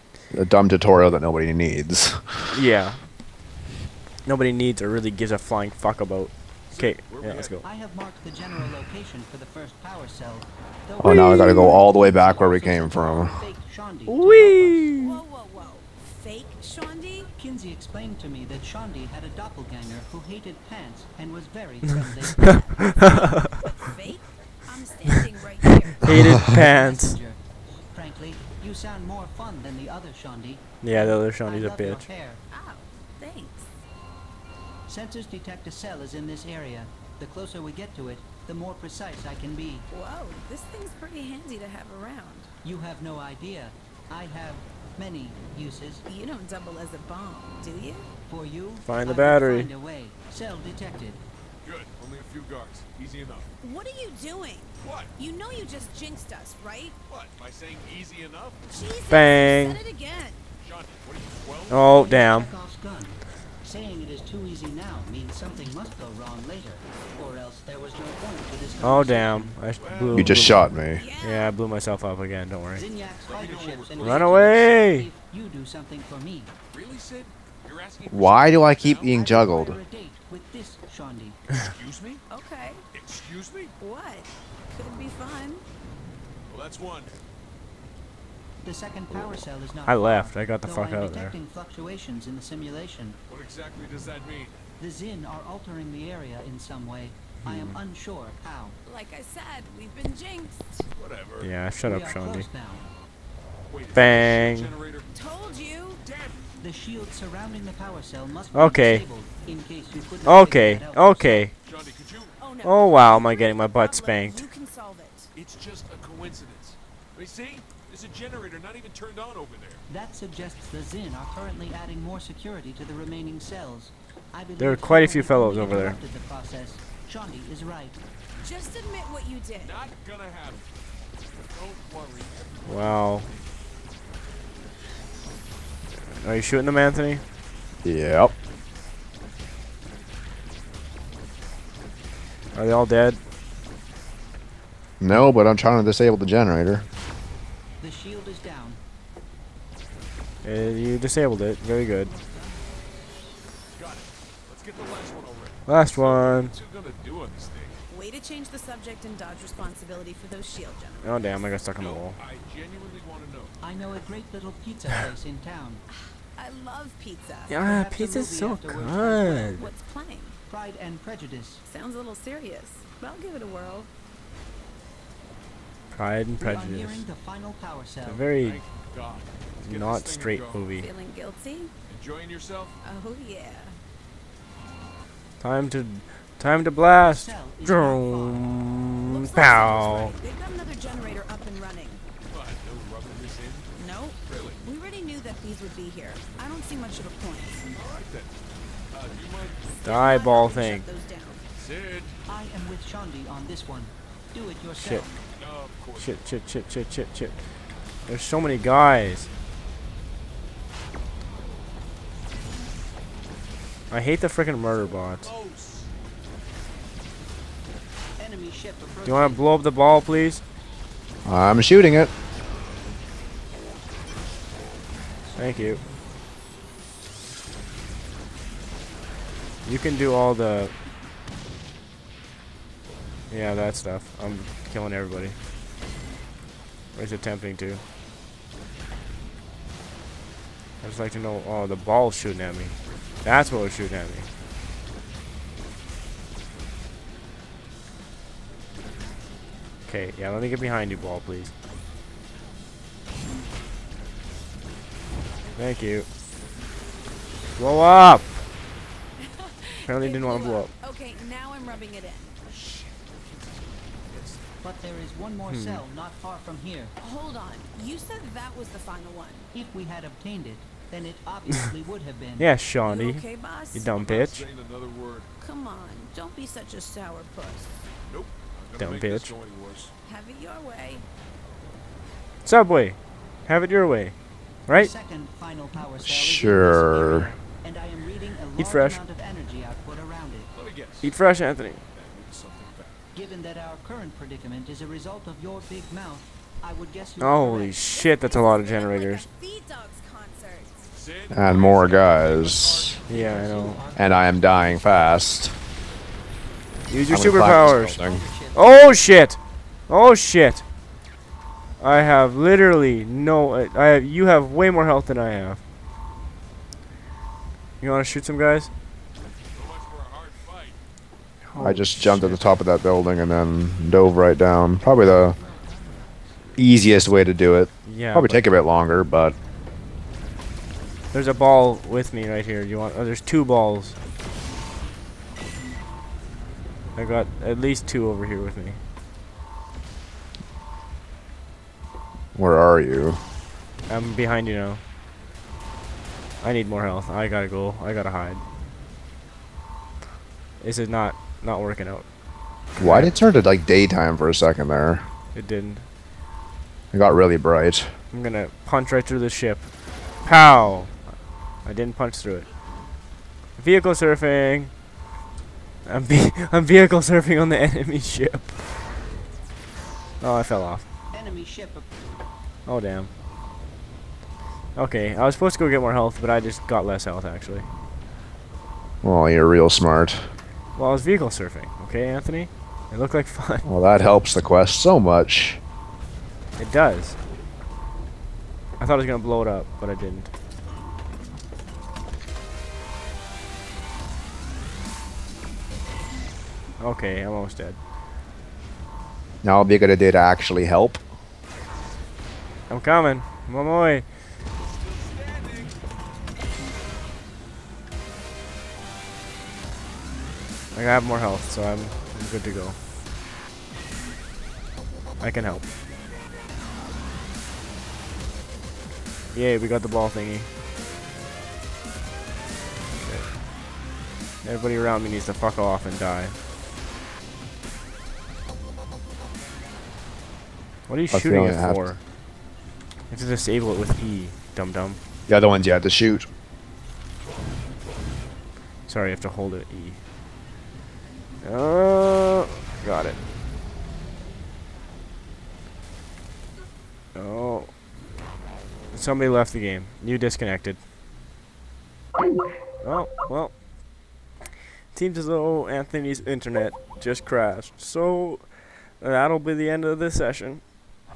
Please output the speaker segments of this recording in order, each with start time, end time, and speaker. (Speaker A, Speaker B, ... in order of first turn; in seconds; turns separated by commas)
Speaker A: 0.3-2.5, Speaker B: 2.5-3.1, Speaker B: 4.2-7.6, Speaker C: 6.7-7.6, Speaker D: 7.6-14.9, Speaker A: 11.0-13.4, Speaker B: 14.1-15.2, Speaker E: 15.0-17.3, Speaker D: 17.4-23.2, Speaker E: 22.5-26.0, Speaker B: 26.0-27.2, Speaker D: 26.3-32.4, Speaker B: 30.8-32.0, Speaker E: 32.5-33.7, Speaker D: 34.9-39.9, Speaker E: 39.9-42.5, Speaker D: 42.6-46.0, Speaker E: 46.0-48.1, Speaker D: 48.3-51.2, Speaker B: 48.8-49.7, Speaker C: 51.6-53.5, Speaker E: 53.6-57.0, Speaker C: 54.8-55.1, Speaker C: 57.1-58.6, Speaker E: 58.7-60.5, Speaker B: 59.1-59.8, Speaker C: 60.6-61.9, Speaker B: 61.7-62.5, Speaker D: 61.7-69.6, Speaker B: 68.8-70.7, Speaker C: 69.8-70.4, Speaker A: 70.1-71.0, Speaker E: 70.9-71.5, Speaker B: 71.2-72.9, Speaker D: 72.7-76.5, Speaker C: 73.2-74.6, Speaker B: 74.0-75.1, Speaker C: 76.7-79.2, Speaker A: 78.1-79.8, Speaker D: 79.1-81.5, Speaker C: 81.5-82.2, Speaker E: 82.3-82.8, Speaker C: 82.9-83.7, Speaker E: 83.8-85.6, Speaker C: 86.5-87.1, Speaker D: 88.6-93.2, Speaker B: 89.8-91.3, Speaker C: 93.3-94.6, Speaker D: 94.8-98.8, Speaker B: 97.4-97.8, Speaker E: 98.8-100.8, Speaker C: 101.0-101.5, Speaker B: 101.4-102.5, Speaker D: 101.8-102.9, Speaker C: 103.7-106.5, Speaker B: 103.9-104.7, Speaker E: 105.1-106.0, Speaker D: 106.6-111.5, Speaker B: 108.5-109.0, Speaker B: 110.2-111.5, Speaker C: 111.6-112.4, Speaker E: 112.4-115.3, Speaker B: 112.6-114.4, Speaker C: 115.3-119.8, Speaker D: 119.9-128.0, Speaker B: 124.6-126.0, Speaker E: 128.4-129.8, Speaker C: 129.6-130.7, Speaker C: 131.5-133.4, Speaker B: 132.7-133.3, Speaker B: 136.2-137.2, Speaker A: 137.8-138.3, Speaker B: 142.5-143.2, Speaker A: 145.0-146.8, Speaker D: 147.8-148.8, Speaker B: 150.4-152.1, Speaker C: 153.7-157.8, Speaker B: 155.7-156.5, Speaker E: 157.9-161.4, Speaker B: 161.0-162.2, Speaker C: 161.7-163.6, Speaker D: 163.6-165.8, Speaker E: 165.9-167.6, Speaker B: 167.5-169.6, Speaker D: 167.6-169.7, Speaker E: 169.6-170.4, Speaker D: 170.4-171.6, Speaker E: 171.6-173.9, Speaker B: 175.9-177.0, Speaker D: 176.4-178.2, Speaker B: 178.0-178.6, Speaker C: 178.3-180.7, Speaker B: 179.6-180.9, Speaker E: 180.8-181.7, Speaker C: 181.9-182.8, Speaker E: 182.8-183.8, Speaker B: 185.4-190.1, Speaker D: 186.9-188.4, Speaker E: 189.0-192.0, Speaker C: 192.2-193.7, Speaker E: 193.7-197.6, Speaker C: 194.2-194.6, Speaker C: 197.7-198.3, Speaker C: 198.9-199.7, Speaker E: 199.7-201.4, Speaker B: 199.8-200.9, Speaker C: 201.5-202.2, Speaker D: 202.2-205.2, Speaker B: 204.8-205.1, Speaker C: 205.3-206.3, Speaker B: 206.0-209.3, Speaker B: 213.9-215.3, Speaker C: 214.7-215.9, Speaker D: 218.2-219.4, Speaker B: 219.0-220.4, Speaker A: 221.2-222.1, Speaker D: 225.2-225.8, Speaker B: 225.3-225.8, Speaker B: 229.6-230.7, Speaker B: 233.3-235.4, Speaker B: 236.9-237.8, Speaker B: 240.8-244.3, Speaker B: 249.9-251.5, Speaker B: 255.6-256.1, Speaker B: 257.6-258.3, Speaker E: 259.2-262.4, Speaker B: 259.9-260.7, Speaker C: 262.5-264.5, Speaker D: 264.6-266.9, Speaker B: 265.4-265.8, Speaker E: 267.0-269.5, Speaker D: 269.5-272.5, Speaker B: 272.4-274.4, Speaker E: 272.8-273.9, Speaker C: 273.9-275.3, Speaker E: 275.4-277.7, Speaker C: 278.1-279.9, Speaker B: 278.8-279.3, Speaker E: 280.0-281.1, Speaker B: 282.4-284.1, Speaker D: 284.7-290.5, Speaker A: 286.0-287.3, Speaker B: 288.6-289.0, Speaker C: 290.5-291.1, Speaker B: 291.0-291.8, Speaker C: 291.9-293.0, Speaker D: 293.1-297.8, Speaker B: 297.2-299.3, Speaker E: 297.6-300.7, Speaker C: 300.9-303.4, Speaker A: 301.3-303.0, Speaker B: 303.1-303.8, Speaker D: 303.1-304.4, Speaker A: 303.9-305.6, Speaker B: 306.9-310.6, Speaker A: 307.1-308.2, Speaker D: 307.4-308.9, Speaker B: 311.8-315.6, Speaker B: 317.8-318.7, Speaker C: 319.5-320.8, Speaker B: 321.5-322.6, Speaker A: 321.6-325.4, Speaker C: 325.3-326.5, Speaker A: 326.6-329.3, Speaker B: 327.8-328.4, Speaker B: 331.1-334.0, Speaker B: 336.9-338.8, Speaker A: 342.3-343.2, Speaker B: 343.9-344.8, Speaker B: 346.4-348.4, Speaker B: 350.6-352.1, Speaker B: 352.7-353.1, Speaker A: 352.8-355.1, Speaker B: 355.3-355.9, Speaker A: 356.9-358.0, Speaker B: 358.1-361.1, Speaker B: 361.6-362.5, Speaker B: 363.6-364.7, Speaker B: 365.8-368.8, Speaker B: 370.2-370.8, Speaker D: 371.1-371.9, Speaker B: 372.6-373.1, Speaker B: 374.7-377.7, Speaker A: 379.0-380.3, Speaker B: 380.7-383.7, Speaker A: 383.6-385.6, Speaker B: 386.6-387.2, Speaker B: 388.8-390.3, Speaker B: 396.8-397.8, Speaker A: 399.4-401.0, Speaker B: 402.7-404.1, Speaker C: 404.6-405.8, Speaker B: 410.7-412.8, Speaker B: 415.2-415.7, Speaker B: 419.3-420.5, Speaker B: 423.0-423.4, Speaker B: 424.4-426.4, Speaker B: 430.9-432.0, Speaker A: 431.1-431.9, Speaker B: 433.1-435.0, Speaker A: 435.3-436.3, Speaker B: 438.9-440.0, Speaker B: 441.4-443.2, Speaker B: 447.1-447.7, Speaker B: 448.9-450.8, Speaker B: 452.8-453.6, Speaker B: 454.9-460.6